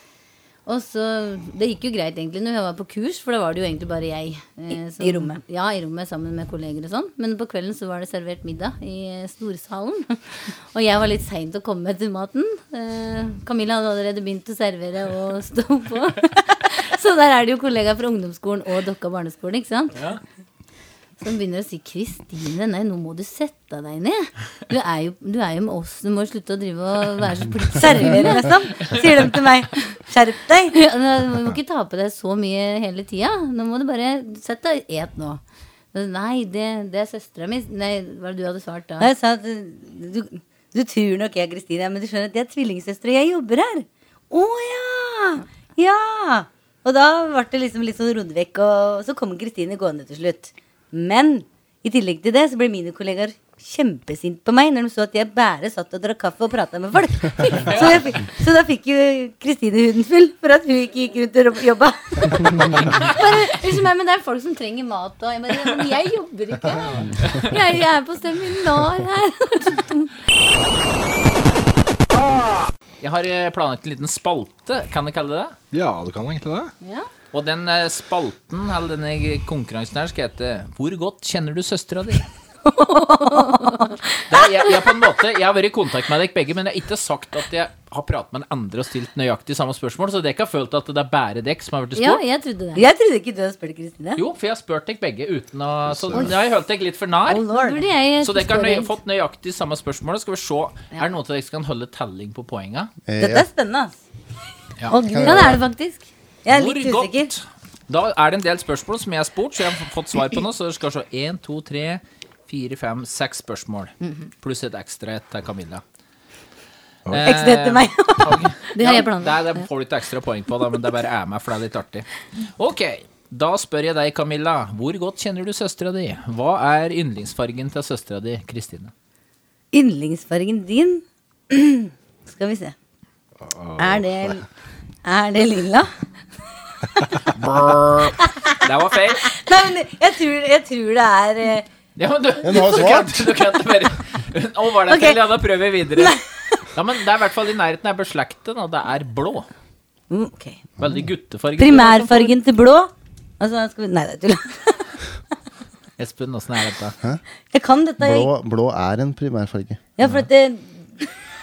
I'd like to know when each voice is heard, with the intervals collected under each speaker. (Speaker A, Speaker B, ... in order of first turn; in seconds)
Speaker A: 0.7-20.0, 21.2-29.0, 30.7-35.4, 35.9-39.1, 62.8-70.1, 76.8-77.1, 82.9-83.9, 92.0-92.9, 97.5-99.0, 105.2-106.1, 118.8-119.7
Speaker B: 5.0-5.4, 27.8-30.8, 39.0-62.7, 82.7-83.9, 92.8-94.2, 97.3-97.9, 103.2-104.0, 104.9-105.6, 106.5-107.3, 117.2-118.5, 129.7-132.7, 133.8-134.5, 135.0-135.9, 138.2-138.6, 139.2-141.7, 144.9-145.2, 146.0-146.6, 150.1-150.7, 151.6-154.9, 157.5-158.3, 160.0-161.0
Speaker C: 57.6-58.0, 73.0-75.6, 77.3-82.3, 84.3-92.2, 94.2-97.4, 98.2-102.9, 106.5-115.8, 117.1-128.9, 138.6-139.3, 142.0-146.2, 146.8-149.5, 150.8-152.3, 156.0-157.0
Speaker D: 75.7-76.7, 95.9-96.2, 133.4-134.3
Speaker E: 103.1-103.5, 105.0-105.6, 142.4-143.3, 158.0-159.9